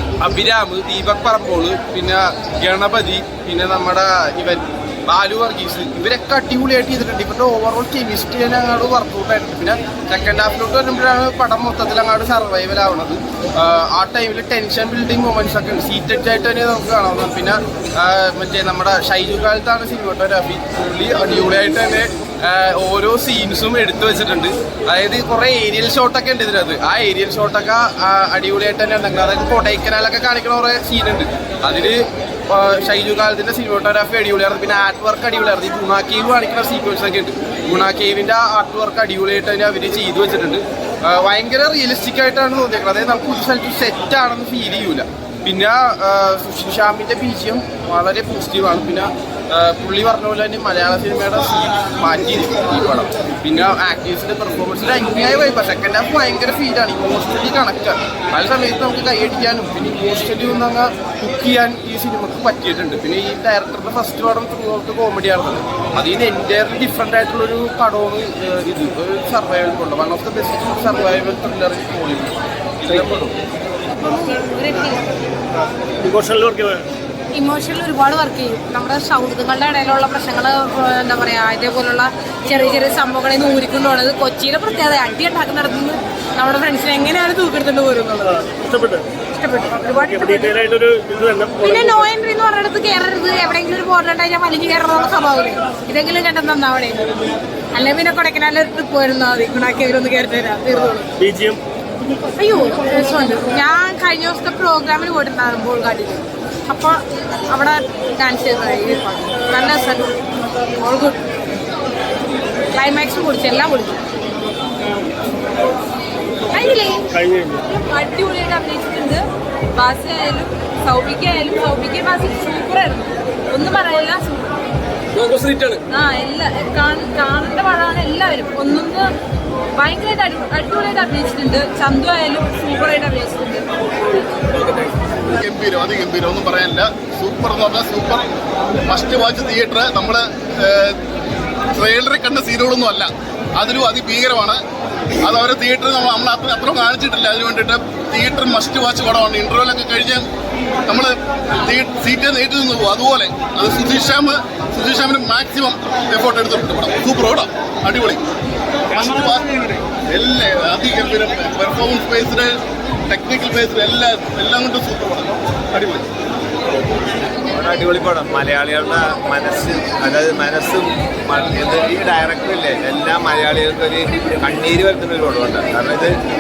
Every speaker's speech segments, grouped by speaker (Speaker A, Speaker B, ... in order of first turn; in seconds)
Speaker A: 0.2-73.3
Speaker B: 73.9-75.0, 77.3-88.3, 89.3-90.7, 91.6-101.1, 102.4-107.0, 107.5-110.2, 110.8-111.2, 112.7-114.0, 116.5-117.1, 122.4-122.8, 123.5-124.4, 126.3-127.3, 128.2-128.9
Speaker C: 76.0-76.8, 88.2-89.1, 90.0-92.1, 100.8-101.6, 117.1-117.7
Speaker D: 117.7-119.2, 119.8-123.0, 125.9-129.0, 129.8-134.0
Speaker E: 135.3-138.3, 138.9-141.0, 141.7-144.6, 145.2-150.3, 150.9-158.2, 158.9-162.5, 163.1-166.0
Speaker F: 167.5-176.2